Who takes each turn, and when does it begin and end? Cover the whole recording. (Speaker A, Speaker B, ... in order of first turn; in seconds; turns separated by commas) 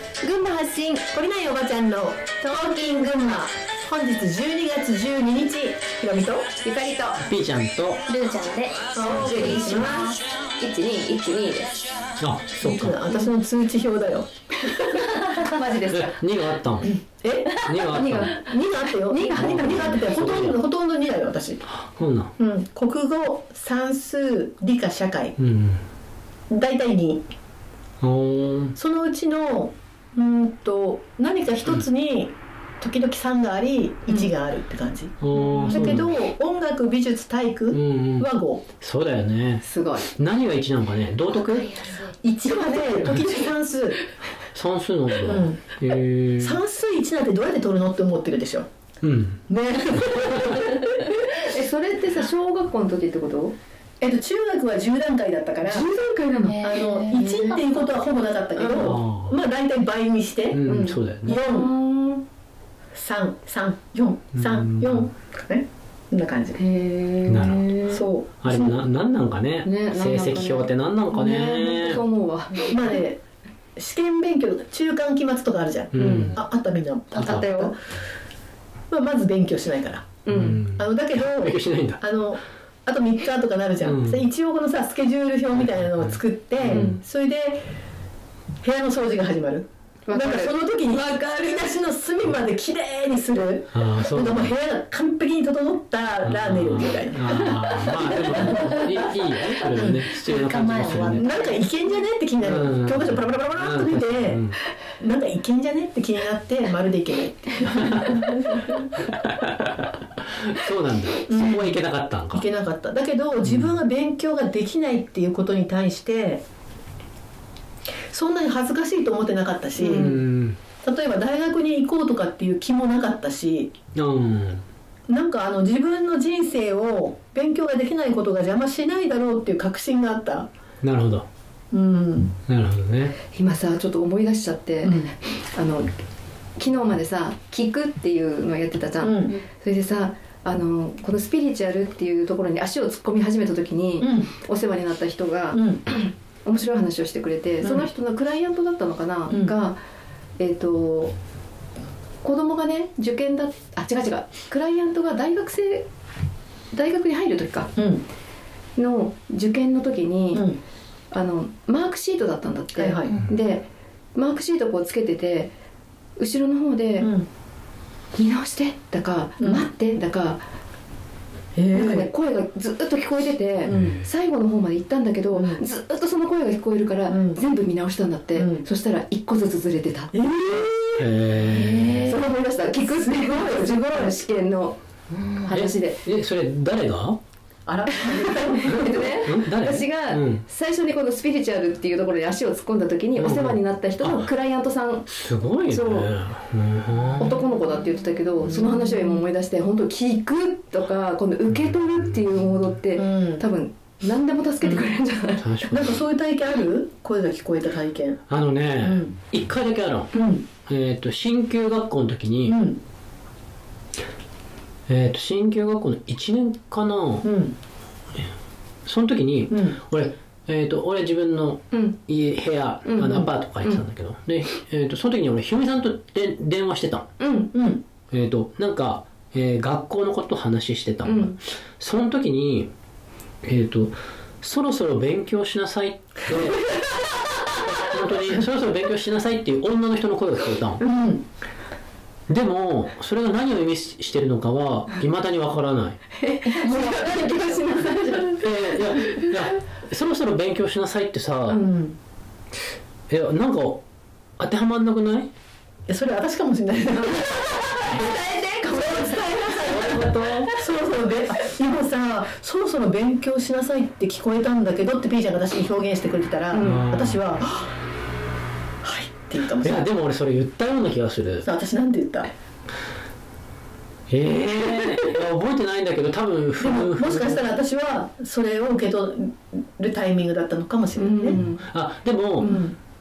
Speaker A: 0.2-1.1, Speaker B: 1.1-6.5, Speaker A: 6.6-7.3, Speaker C: 7.3-8.1, Speaker D: 8.1-10.2, Speaker B: 8.9-10.1, Speaker A: 9.1-11.8, Speaker C: 12.2-13.0, Speaker B: 12.6-14.3, Speaker A: 14.6-16.6, Speaker C: 15.8-16.9, Speaker B: 16.8-17.6, Speaker A: 17.5-20.2, Speaker C: 17.7-18.3, Speaker B: 18.3-21.6, Speaker C: 19.4-20.6, Speaker C: 21.7-22.3, Speaker B: 22.4-25.4, Speaker C: 25.4-25.8, Speaker B: 26.5-27.2, Speaker C: 28.0-28.8, Speaker B: 28.8-38.6, Speaker C: 35.2-36.2, Speaker A: 35.5-35.8, Speaker C: 37.7-38.3, Speaker C: 38.8-42.0, Speaker A: 39.6-40.1, Speaker B: 42.2-44.0, Speaker C: 44.5-46.6, Speaker B: 45.2-45.8, Speaker B: 46.4-48.7, Speaker C: 49.0-49.4, Speaker B: 49.5-51.1, Speaker A: 50.6-53.5, Speaker B: 54.0-55.9, Speaker A: 55.6-56.9, Speaker D: 56.4-58.0, Speaker B: 56.6-60.7, Speaker A: 58.6-59.0, Speaker C: 58.7-59.4, Speaker C: 60.5-61.4, Speaker A: 60.6-62.2, Speaker B: 61.2-61.7, Speaker B: 63.0-66.6, Speaker C: 64.4-65.0, Speaker A: 66.5-68.0, Speaker C: 67.3-67.7, Speaker B: 67.9-68.8, Speaker C: 68.4-72.0, Speaker A: 69.6-73.0, Speaker B: 72.6-73.2, Speaker B: 73.8-77.8, Speaker C: 75.9-76.4, Speaker A: 76.0-76.4, Speaker A: 77.1-77.8, Speaker C: 77.2-77.5, Speaker B: 78.9-80.2, Speaker A: 80.3-80.7, Speaker C: 80.3-82.0, Speaker B: 80.7-87.7, Speaker C: 83.8-84.2, Speaker A: 86.7-87.0, Speaker B: 88.6-97.5, Speaker A: 90.1-91.8, Speaker C: 93.7-94.5, Speaker C: 96.2-101.3, Speaker A: 97.3-99.6, Speaker B: 99.8-100.0, Speaker D: 100.2-101.6, Speaker B: 100.9-108.8, Speaker C: 102.4-104.6, Speaker C: 107.7-108.3, Speaker C: 109.0-112.5, Speaker B: 111.3-111.8, Speaker B: 112.3-116.4, Speaker C: 113.4-113.8, Speaker B: 118.1-120.2, Speaker A: 119.8-120.1, Speaker C: 119.9-120.6, Speaker B: 120.8-123.7, Speaker C: 124.0-124.7, Speaker B: 125.1-130.5, Speaker C: 130.8-131.3, Speaker B: 131.7-132.3, Speaker C: 132.5-133.2, Speaker A: 133.3-135.9, Speaker B: 134.8-135.1, Speaker A: 136.6-149.8, Speaker B: 139.0-139.4, Speaker B: 144.0-144.3, Speaker B: 145.5-145.8, Speaker B: 147.6-147.9, Speaker B: 149.3-149.6, Speaker A: 150.4-151.2, Speaker A: 152.2-155.9, Speaker A: 156.7-157.7, Speaker B: 157.8-158.0, Speaker A: 158.8-160.5, Speaker B: 160.3-160.6, Speaker A: 161.1-165.5, Speaker B: 162.8-163.2, Speaker A: 166.2-167.1, Speaker B: 167.0-167.3, Speaker A: 168.2-170.4, Speaker B: 169.4-169.7, Speaker A: 171.6-180.2, Speaker B: 171.6-172.1, Speaker B: 173.7-174.0, Speaker C: 173.7-174.1, Speaker B: 175.3-175.7, Speaker B: 177.1-177.4, Speaker B: 178.3-178.7, Speaker B: 180.1-181.1, Speaker C: 181.0-182.2, Speaker A: 181.4-184.8, Speaker B: 182.8-184.2, Speaker D: 185.1-185.5, Speaker A: 185.4-186.0, Speaker C: 185.5-187.2, Speaker B: 187.7-189.2, Speaker A: 188.0-195.1, Speaker C: 189.2-190.4, Speaker C: 193.2-194.3, Speaker C: 195.1-197.4, Speaker A: 195.6-196.1, Speaker A: 197.2-205.6, Speaker B: 198.4-199.2, Speaker B: 203.0-203.4, Speaker C: 205.4-206.0, Speaker B: 205.7-208.2, Speaker C: 208.3-210.2, Speaker B: 208.8-209.1, Speaker B: 210.1-210.5, Speaker C: 210.7-212.6, Speaker B: 212.5-212.8, Speaker C: 214.9-217.3, Speaker B: 217.2-217.6, Speaker C: 218.9-227.1, Speaker B: 219.5-219.8, Speaker A: 221.7-222.0, Speaker A: 222.8-223.8, Speaker B: 223.0-223.3, Speaker A: 227.2-227.5, Speaker B: 227.5-227.8, Speaker C: 228.1-232.7, Speaker A: 231.0-231.4, Speaker C: 233.4-236.8, Speaker C: 237.6-240.8, Speaker B: 240.8-241.2, Speaker C: 242.3-246.0, Speaker A: 246.2-248.4, Speaker B: 246.6-248.2, Speaker C: 248.4-251.6, Speaker B: 251.5-252.0, Speaker C: 253.1-253.8, Speaker C: 254.4-255.3, Speaker B: 255.9-257.8, Speaker A: 257.2-260.6, Speaker B: 258.7-260.0, Speaker C: 259.6-260.5, Speaker B: 260.5-267.7, Speaker A: 266.5-266.9, Speaker C: 266.6-267.2, Speaker B: 268.8-269.9, Speaker C: 269.6-271.4, Speaker B: 271.4-272.3, Speaker C: 274.1-277.5, Speaker B: 276.6-281.4, Speaker A: 281.0-281.6, Speaker C: 281.3-282.5, Speaker A: 282.4-282.7, Speaker B: 282.4-282.8